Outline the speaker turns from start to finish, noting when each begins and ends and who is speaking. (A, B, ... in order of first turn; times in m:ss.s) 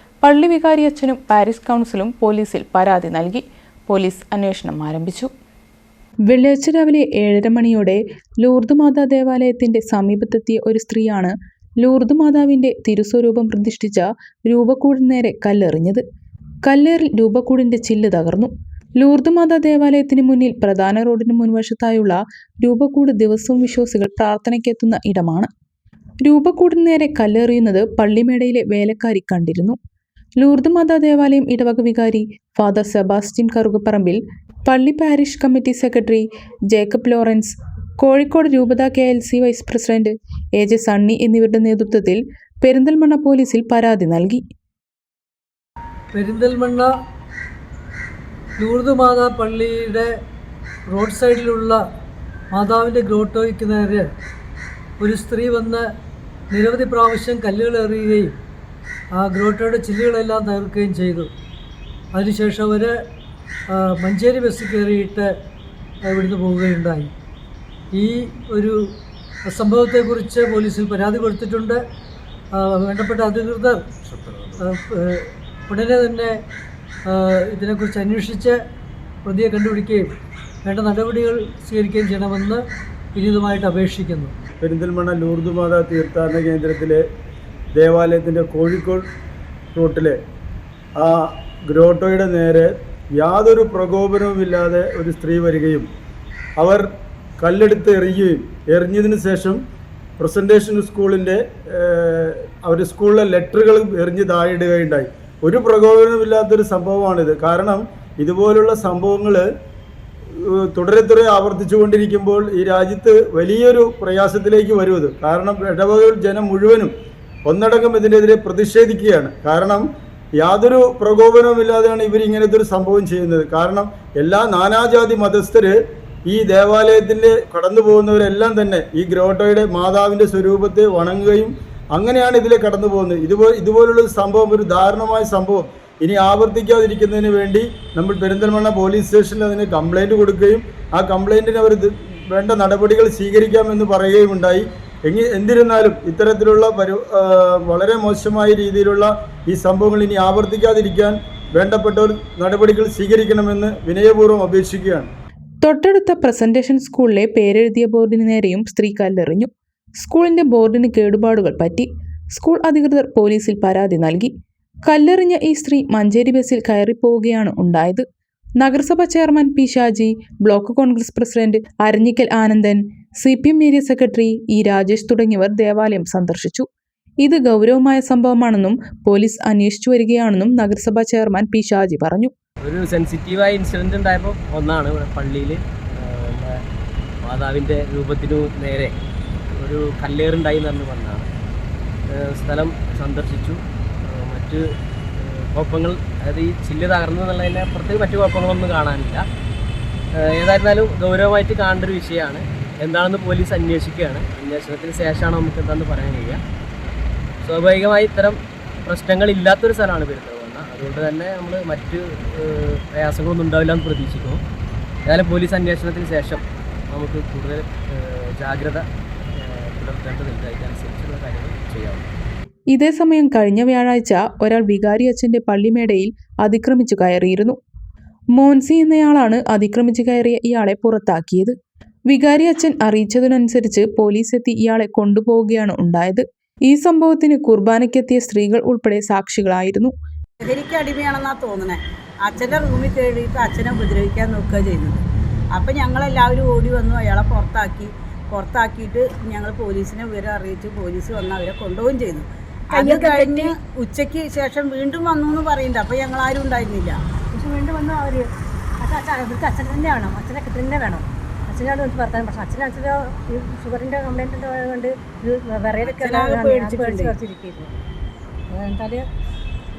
0:00.2-0:05.3 A
0:06.3-0:16.0 A
0:16.6-0:25.5 A
0:26.2-0:29.8 A
0:30.4-0:44.4 A
0:46.1-0:46.9 B
0:48.6-0:50.1 B
0:50.9-0:51.8 B
0:52.5-0:54.1 B
0:55.0-0:55.9 B
0:56.5-0:58.3 B
0:59.2-1:01.3 B
1:02.1-1:03.0 B
1:03.7-1:05.3 B
1:06.1-1:07.1 B
1:07.9-1:08.8 B
1:09.5-1:11.8 B
1:12.5-1:13.8 B
1:14.6-1:16.4 B
1:17.1-1:18.6 B
1:19.2-1:20.1 B
1:20.6-1:22.6 B
1:23.2-1:24.3 B
1:24.6-1:27.0 C
1:27.7-1:29.0 C
1:29.7-1:30.2 C
1:31.0-1:35.9 C
1:36.6-1:36.8 C
1:37.4-1:39.6 C
1:40.2-1:49.4 C
1:50.4-1:56.9 C
1:57.5-1:59.8 C
2:00.4-2:05.8 C
2:06.3-2:35.1 C
2:35.6-2:44.3 A
2:44.9-2:48.0 A
2:48.6-2:56.7 A
2:57.2-3:02.3 A
3:02.6-3:06.6 D
3:07.2-3:08.9 D
3:09.6-3:11.3 D
3:12.1-3:14.6 D
3:15.2-3:19.2 D
3:20.4-3:26.4 D
3:27.4-3:34.4 D
3:35.1-3:38.8 D
3:39.4-3:42.1 D
3:42.7-3:47.6 A
3:48.4-3:51.6 A
3:52.1-3:59.9 A
4:00.4-4:05.0 E
4:05.6-4:17.0 E
4:12.8-4:13.5 F
4:17.3-4:18.3 F
4:18.8-4:27.7 F
4:25.8-4:27.1 E
4:28.5-4:29.0 F